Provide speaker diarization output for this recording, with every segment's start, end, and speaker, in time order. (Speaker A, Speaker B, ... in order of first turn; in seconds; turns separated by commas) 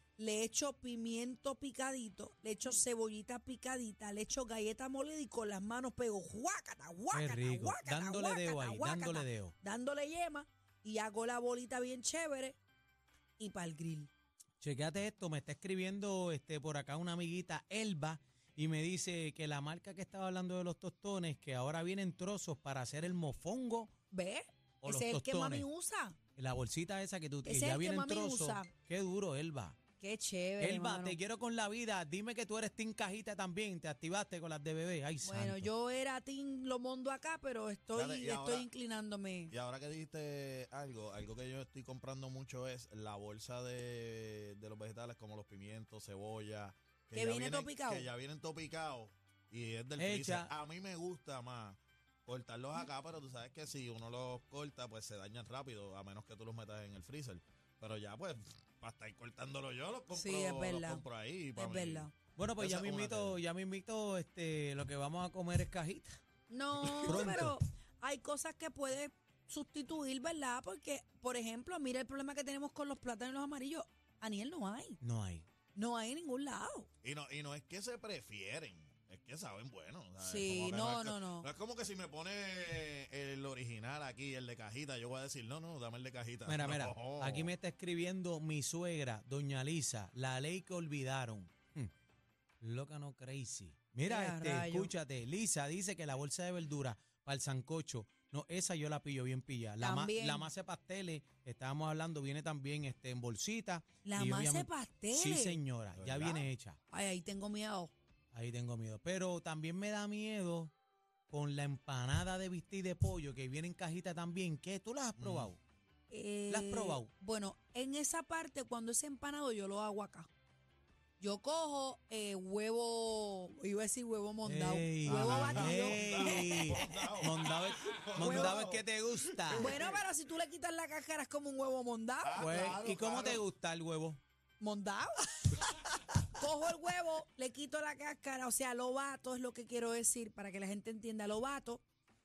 Speaker A: 0.2-12.6, Speaker B: 7.1-9.5, Speaker A: 13.4-14.1, Speaker B: 14.6-23.9, Speaker A: 24.1-26.2, Speaker B: 24.8-25.7, Speaker B: 26.4-29.8, Speaker A: 27.4-28.7, Speaker A: 30.0-31.2, Speaker B: 30.6-35.7, Speaker A: 35.2-39.5, Speaker C: 37.9-38.7, Speaker C: 39.5-63.4, Speaker A: 47.1-48.1, Speaker B: 50.0-50.5, Speaker A: 60.1-61.0, Speaker A: 61.5-62.1, Speaker B: 62.4-66.2, Speaker A: 66.5-75.0, Speaker B: 67.0-67.6, Speaker C: 67.1-67.3, Speaker B: 75.0-75.5, Speaker A: 75.7-76.9, Speaker C: 77.0-87.5, Speaker A: 80.2-81.5, Speaker B: 86.5-91.9, Speaker B: 92.6-106.8, Speaker A: 94.0-94.9, Speaker A: 99.8-100.5, Speaker A: 104.0-105.6, Speaker C: 106.0-106.5, Speaker A: 106.9-107.9, Speaker B: 108.3-110.7, Speaker B: 111.3-115.6, Speaker C: 115.2-115.5, Speaker A: 116.1-120.3, Speaker B: 116.5-117.1, Speaker A: 121.2-127.2, Speaker B: 124.4-129.8, Speaker C: 125.0-130.0, Speaker A: 128.1-128.6, Speaker A: 129.6-132.8, Speaker C: 132.2-133.4, Speaker B: 132.4-134.2, Speaker A: 134.6-135.6, Speaker A: 136.3-141.8